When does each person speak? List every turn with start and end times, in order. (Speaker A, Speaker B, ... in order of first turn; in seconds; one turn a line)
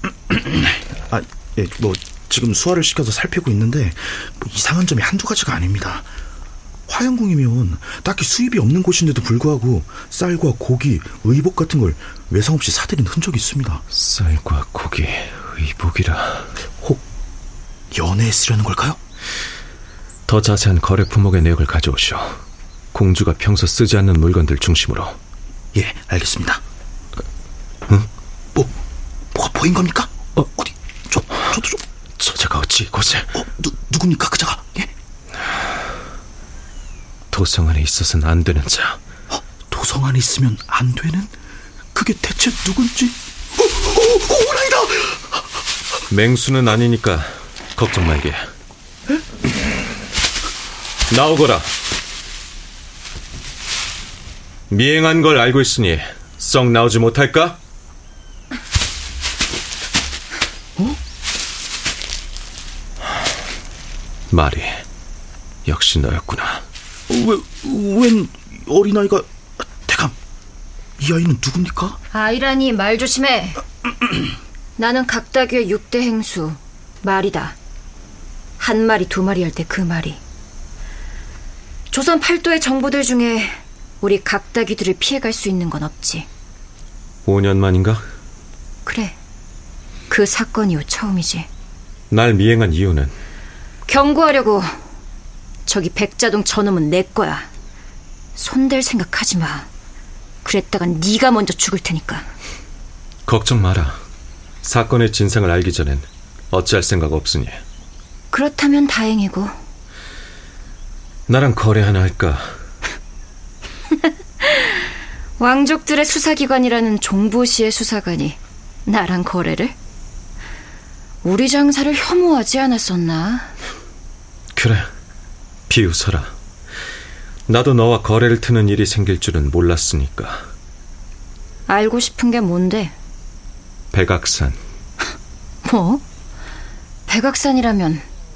Speaker A: 0.3-6.1
Speaker A: 6.9-13.8
Speaker B: 13.9-16.5
Speaker A: 17.9-19.0
Speaker B: 20.3-22.4
Speaker B: 22.9-25.2
Speaker A: 25.7-26.6
Speaker A: 29.3-31.8
Speaker B: 32.2-33.3
Speaker A: 33.4-34.9
Speaker B: 37.3-39.0
Speaker A: 39.3-41.3
Speaker A: 41.9-45.4
Speaker B: 46.1-48.4
Speaker B: 51.1-51.7
Speaker B: 54.7-57.6
Speaker B: 64.3-64.8
Speaker B: 65.7-66.6
Speaker A: 67.1-70.2
Speaker A: 71.0-72.0
Speaker C: 72.1-73.6
Speaker C: 74.8-77.6
Speaker C: 78.6-80.2
Speaker C: 81.9-86.3
Speaker B: 87.2-88.0
Speaker C: 88.9-89.2
Speaker C: 90.1-91.5
Speaker B: 92.1-93.2
Speaker C: 93.9-94.8
Speaker C: 95.7-97.5
Speaker C: 98.4-99.7
Speaker C: 100.4-102.3
Speaker B: 103.3-104.0
Speaker B: 104.6-107.6
Speaker C: 108.3-109.5
Speaker B: 111.3-112.5
Speaker C: 114.4-114.8
Speaker C: 115.4-119.7
Speaker C: 121.2-123.5
Speaker B: 124.5-124.9
Speaker B: 125.7-126.3
Speaker B: 127.5-130.5
Speaker C: 131.7-132.9
Speaker B: 133.9-134.6
Speaker C: 135.6-136.0
Speaker C: 137.1-138.1